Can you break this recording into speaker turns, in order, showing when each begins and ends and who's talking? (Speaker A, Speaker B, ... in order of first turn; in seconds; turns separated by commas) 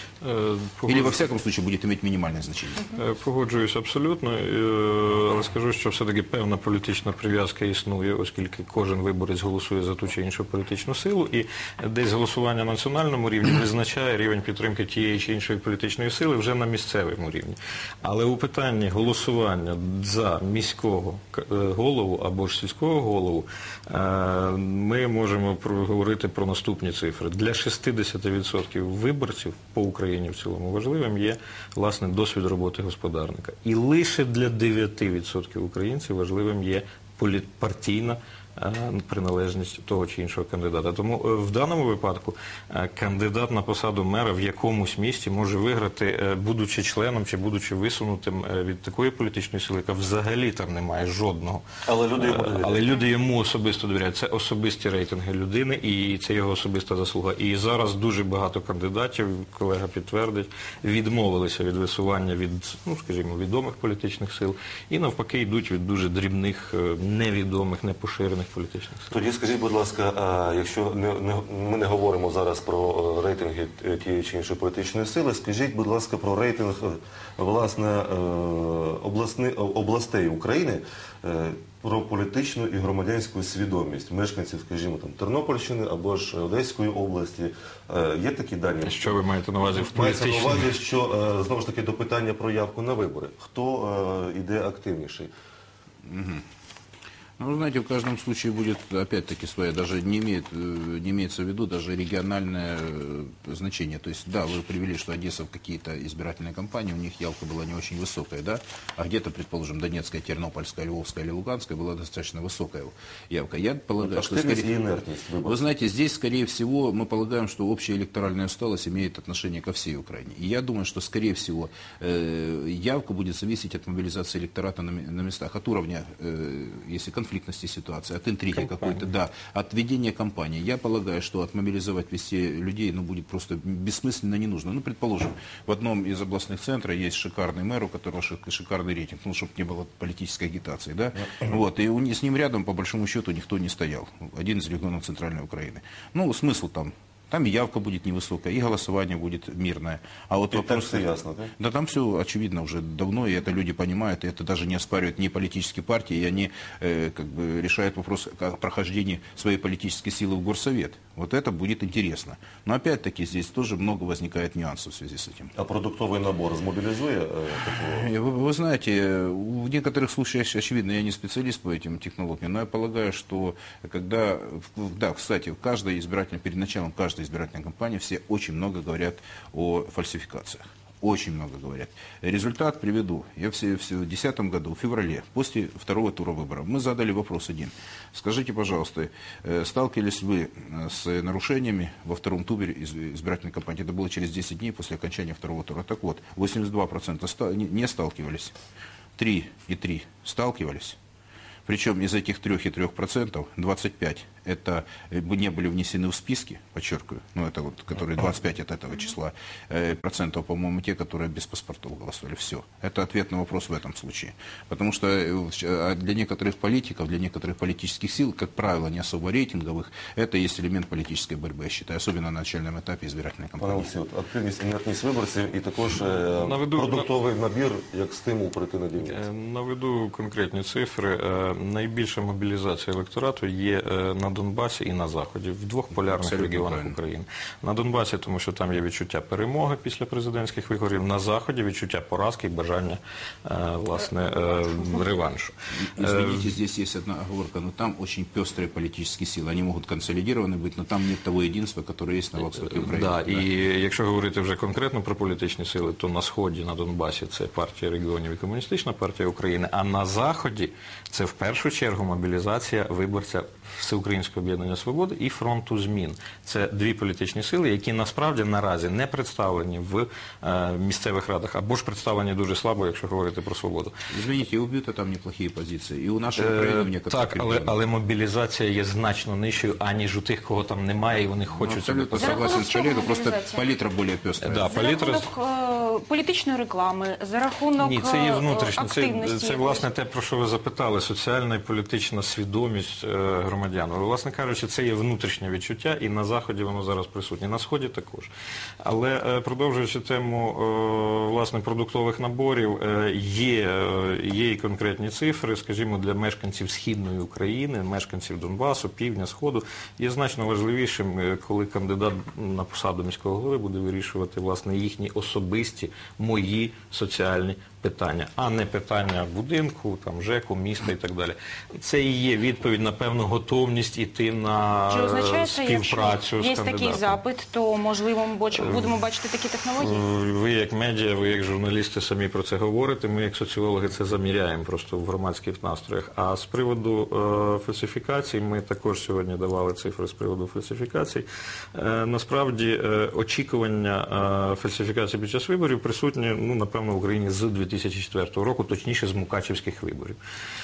Speaker A: 0.2-1.2, Speaker B: 0.9-3.0, Speaker A: 2.9-51.6, Speaker C: 51.9-52.9, Speaker A: 52.2-69.1, Speaker C: 69.1-89.2, Speaker A: 88.8-90.7, Speaker C: 89.8-95.3, Speaker B: 96.0-96.5, Speaker B: 97.4-114.7, Speaker C: 114.0-115.6, Speaker B: 115.4-165.5, Speaker A: 128.5-129.1, Speaker C: 150.5-151.5, Speaker C: 165.6-168.1, Speaker B: 167.7-198.6, Speaker B: 199.2-201.0, Speaker B: 201.7-223.9, Speaker C: 223.6-229.2, Speaker A: 226.4-227.1, Speaker A: 229.0-246.6, Speaker B: 235.9-237.0, Speaker B: 245.8-253.5, Speaker A: 252.7-273.9, Speaker B: 274.1-277.8, Speaker A: 276.4-282.7, Speaker B: 281.5-284.7, Speaker D: 282.2-283.7, Speaker A: 284.4-285.3, Speaker D: 284.7-289.9, Speaker A: 287.8-298.3, Speaker A: 298.8-327.2, Speaker D: 324.9-330.0, Speaker A: 328.5-328.9, Speaker A: 329.8-350.2